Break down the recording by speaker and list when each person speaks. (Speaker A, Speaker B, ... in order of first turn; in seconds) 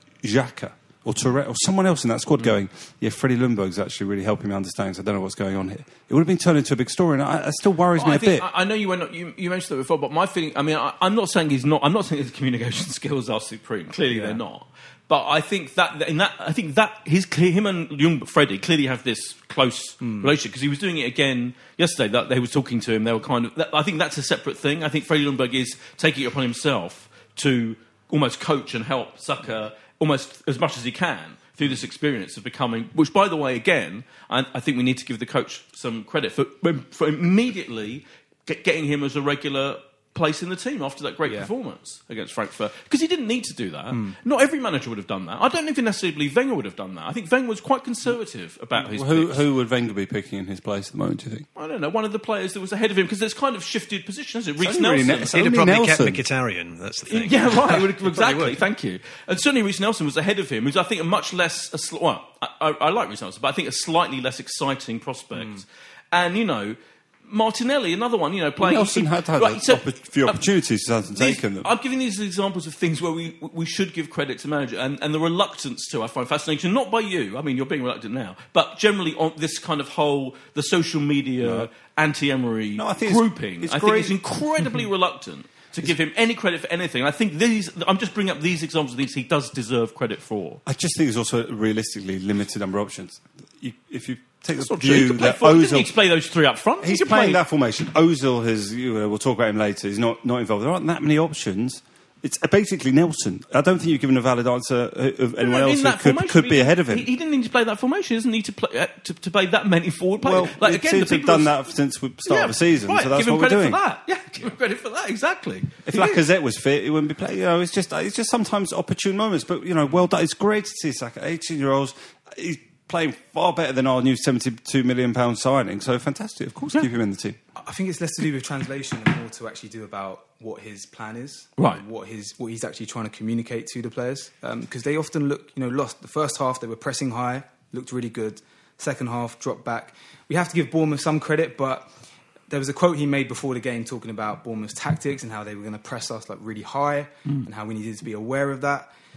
Speaker A: 0.2-8.5, 48.8-51.5, 54.6-56.2, 68.6-71.7, 81.4-81.7, 82.8-84.2, 90.7-95.9, 96.8-107.1, 110.2-113.8, 115.8-127.4
Speaker B: 8.0-49.4, 51.5-55.4, 57.1-70.4, 71.1-90.6, 94.5-97.4, 105.4-111.5, 112.2-116.2, 131.6-131.8
Speaker C: 14.1-14.4, 20.0-20.3, 43.9-44.2, 65.3-65.6, 127.6-141.9, 142.5-148.9
Speaker D: 55.3-58.6